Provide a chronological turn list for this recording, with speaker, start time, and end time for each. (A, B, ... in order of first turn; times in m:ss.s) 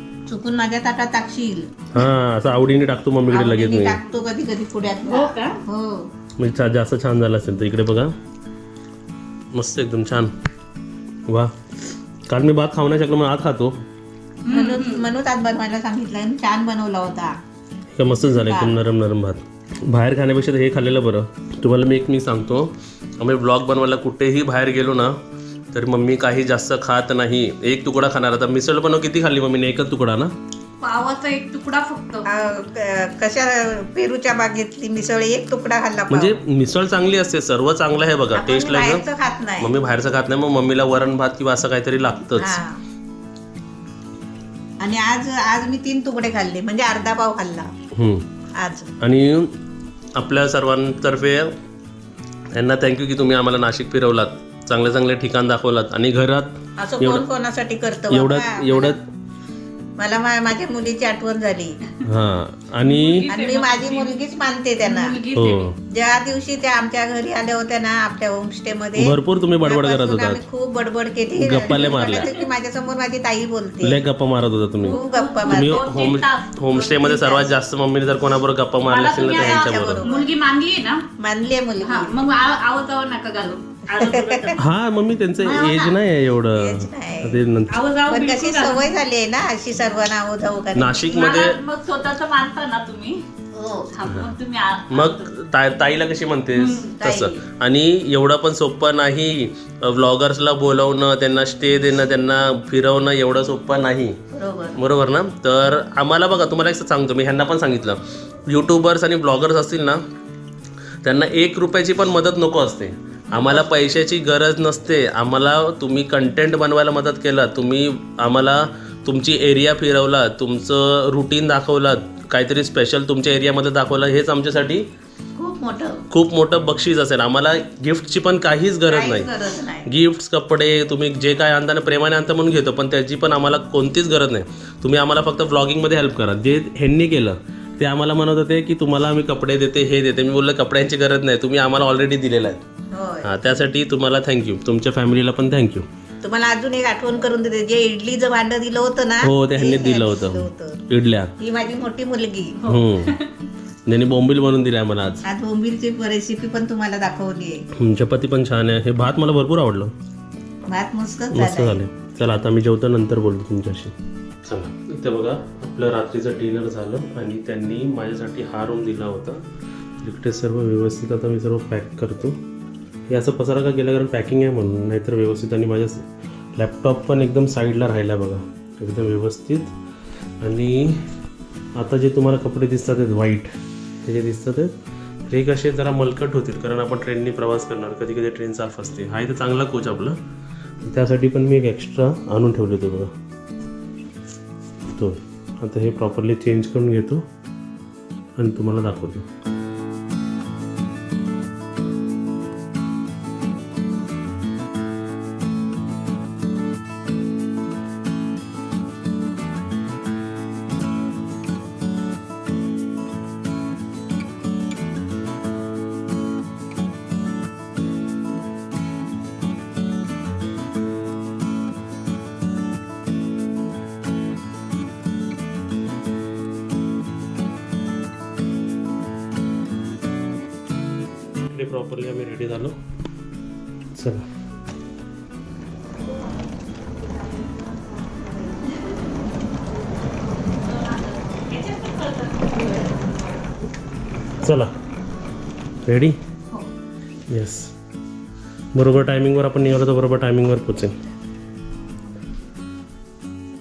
0:00.3-0:01.7 A
0:01.9-0:04.0 B
0:03.3-0:06.1 A
0:05.1-0:05.6 C
0:06.4-0:08.1 B
0:09.5-0:10.3 B
0:11.3-0:11.5 B
0:12.3-0:13.8 B
0:14.4-0:15.1 C
0:14.5-0:17.3 A
0:18.0-0:25.2 B
0:18.3-0:18.8 A
0:25.7-0:30.3 B
0:30.8-0:32.3 C
0:32.3-0:36.4 A
0:36.1-0:39.0 B
0:38.4-0:39.7 A
0:39.6-0:42.6 B
0:42.4-0:42.8 A
0:44.8-0:47.7 A
0:47.9-0:48.2 B
0:48.6-0:48.9 A
0:49.0-0:49.5 B
0:50.2-0:51.5 B
0:52.5-0:57.2 B
0:56.8-0:59.0 A
0:58.1-0:59.0 B
1:00.0-1:01.8 A
1:02.0-1:03.3 B
1:02.8-1:04.1 C
1:03.3-1:05.2 A
1:04.8-1:05.7 C
1:05.4-1:05.8 B
1:05.9-1:14.0 A
1:09.0-1:10.4 B
1:11.4-1:12.3 B
1:11.7-1:12.4 C
1:13.8-1:20.1 B
1:14.8-1:15.9 A
1:14.8-1:17.5 C
1:18.8-1:21.0 C
1:19.3-1:20.3 A
1:21.2-1:22.2 A
1:21.8-1:24.6 C
1:23.9-1:24.6 A
1:24.6-1:27.8 B
1:25.4-1:25.9 C
1:26.6-1:27.4 A
1:27.7-1:28.9 C
1:28.1-1:31.0 A
1:30.8-1:31.6 B
1:31.0-1:33.2 C
1:33.5-1:33.9 A
1:33.9-1:35.3 C
1:34.9-1:44.2 B
1:36.6-1:37.0 C
1:37.0-1:37.4 A
1:44.3-1:44.8 A
1:44.8-1:50.0 B
1:51.0-2:04.9 B
1:53.4-1:53.6 A
2:05.4-2:06.0 A
2:06.1-2:09.3 B
2:08.9-2:09.9 A
2:09.9-2:22.6 B
2:22.9-2:23.3 A
2:23.2-2:25.8 B
2:26.2-2:30.8 A
2:29.2-2:31.3 B
2:31.4-2:32.6 A
2:32.6-2:33.3 C
2:32.7-2:33.1 B
2:33.9-2:35.2 B
2:35.2-2:37.6 A
2:37.8-2:39.9 B
2:40.7-2:41.8 A
2:41.3-2:43.9 B
2:44.4-2:49.4 B
2:50.0-2:52.4 B
2:53.1-2:56.0 B
2:56.6-2:59.7 B
3:00.4-3:01.0 B
3:01.8-3:03.5 B
3:04.0-3:04.7 B
3:05.3-3:10.2 B
3:10.8-3:13.1 B
3:14.9-3:17.2 B
3:18.4-3:19.2 B
3:51.5-3:52.8 B
3:54.0-3:54.2 B
3:58.1-3:58.3 A
4:00.6-4:03.5 C
4:04.4-4:04.7 B
4:05.9-4:06.2 B
4:07.3-4:07.7 B
4:08.7-4:11.0 B